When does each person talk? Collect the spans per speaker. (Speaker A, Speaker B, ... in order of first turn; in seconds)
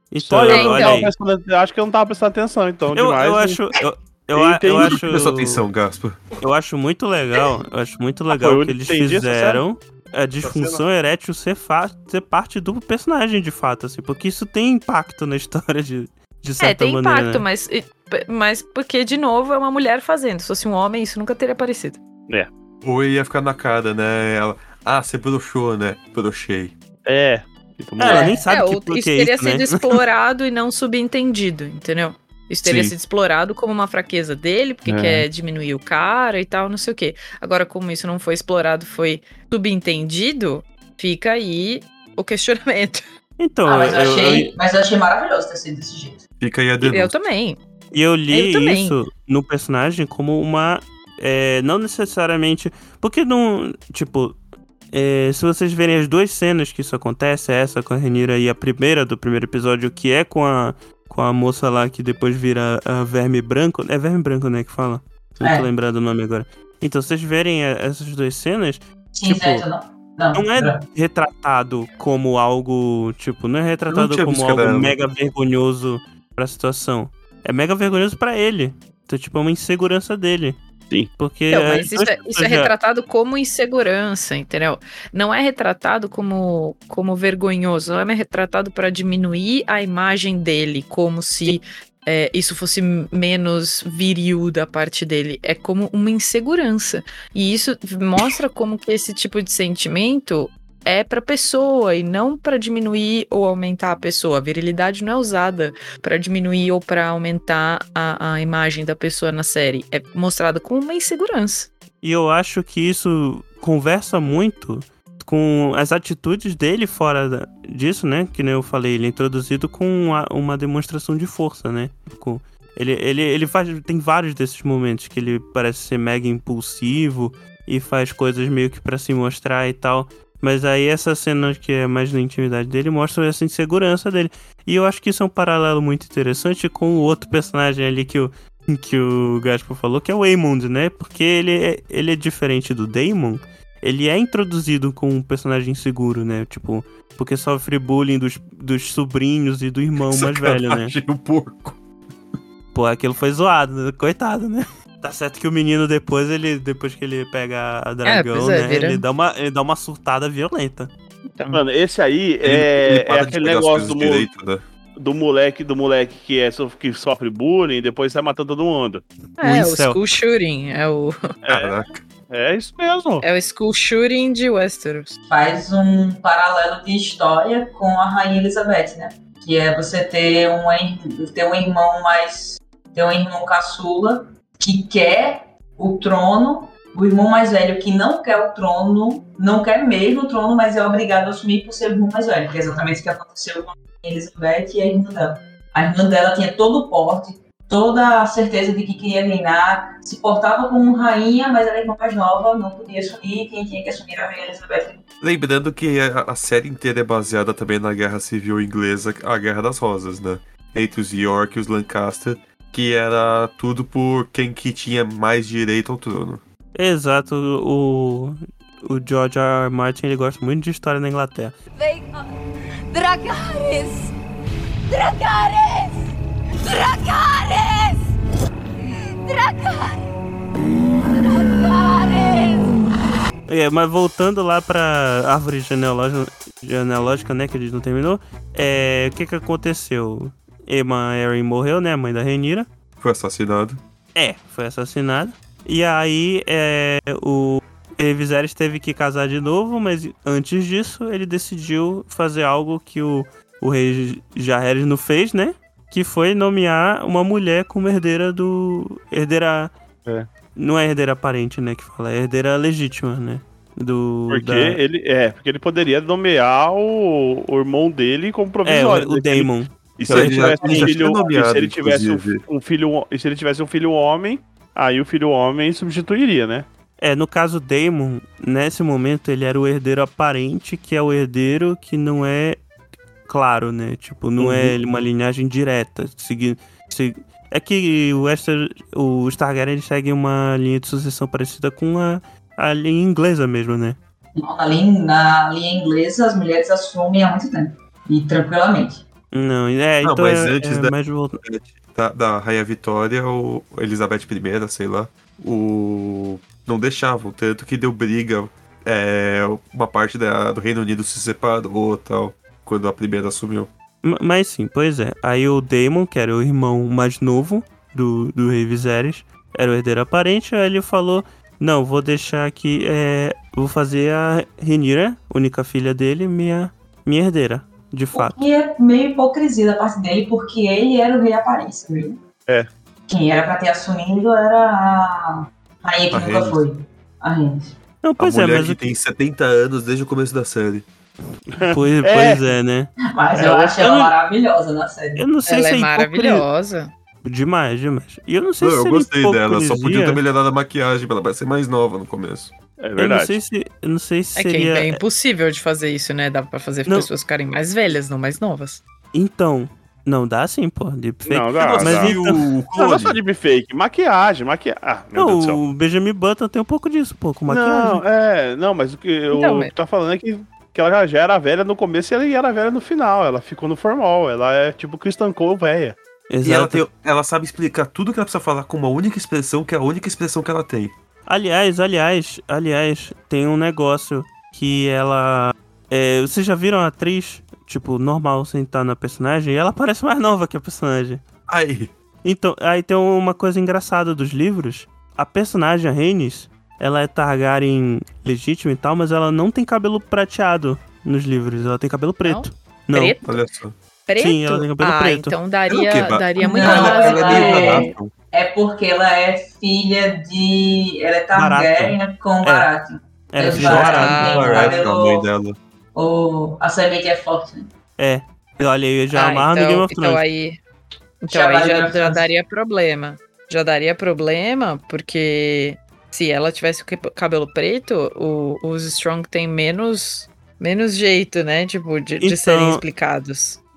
Speaker A: 0.1-1.1, 3.0-5.6, 6.4-17.4, 28.0-30.0, 43.4-44.5, 47.9-54.4, 54.9-69.7, 70.3-80.6, 81.2-82.7, 112.0-150.9, 152.7-160.9, 169.4-170.0, 216.8-221.6, 233.5-242.7, 244.2-259.7, 260.6-264.8, 268.6-271.0, 277.0-282.6, 283.3-294.0, 299.3-301.4, 314.0-328.4, 338.0-338.9, 341.6-344.1, 345.2-346.5, 347.2-350.2, 353.0-355.0, 359.1-362.4, 365.2-368.0, 376.3-376.8, 381.3-391.2, 392.2-403.2, 404.2-405.4, 411.3-412.7, 413.3-414.8, 418.0-420.2, 432.2-432.8
Speaker B: 0.2-3.6, 4.3-5.0, 8.3-9.6, 10.4-10.8, 27.1-28.4, 34.9-35.2, 161.5-164.3, 165.0-169.0, 171.5-171.8, 172.3-173.2, 264.3-276.7, 284.4-284.8, 341.5-342.5, 343.4-343.6, 352.8-353.4, 361.3-362.2, 362.8-365.6, 367.5-376.0
Speaker C: 0.4-1.1, 16.6-22.0, 28.1-43.0, 46.8-47.6, 48.3-49.0, 81.5-111.7, 158.1-159.0, 161.3-161.6, 169.4-171.2, 173.2-175.2, 345.5-346.9, 354.4-358.8, 369.3-369.7, 402.2-403.4, 404.1-407.9, 413.6-414.7, 419.1-420.6, 421.2-433.6
Speaker D: 4.8-6.2, 22.8-26.8, 32.6-32.9, 46.4-47.2, 73.9-75.0, 150.0-151.8, 162.4-164.6, 171.5-172.0, 205.2-216.4, 243.0-243.8, 270.1-272.4, 300.0-313.7, 336.1-336.6, 338.2-340.9, 348.6-352.5, 361.6-363.2, 376.4-380.9, 391.5-391.9, 403.2-403.8, 405.7-408.1, 413.6-415.6
Speaker E: 43.6-46.2, 65.4-65.7, 69.1-70.8, 175.3-205.0, 294.4-299.0, 328.1-332.2, 333.1-337.8, 343.1-345.3, 406.4-415.3, 415.9-417.7, 421.3-422.3
Speaker F: 221.8-222.3, 222.9-224.1, 224.9-226.0, 226.7-228.1, 229.2-230.1, 231.0-232.9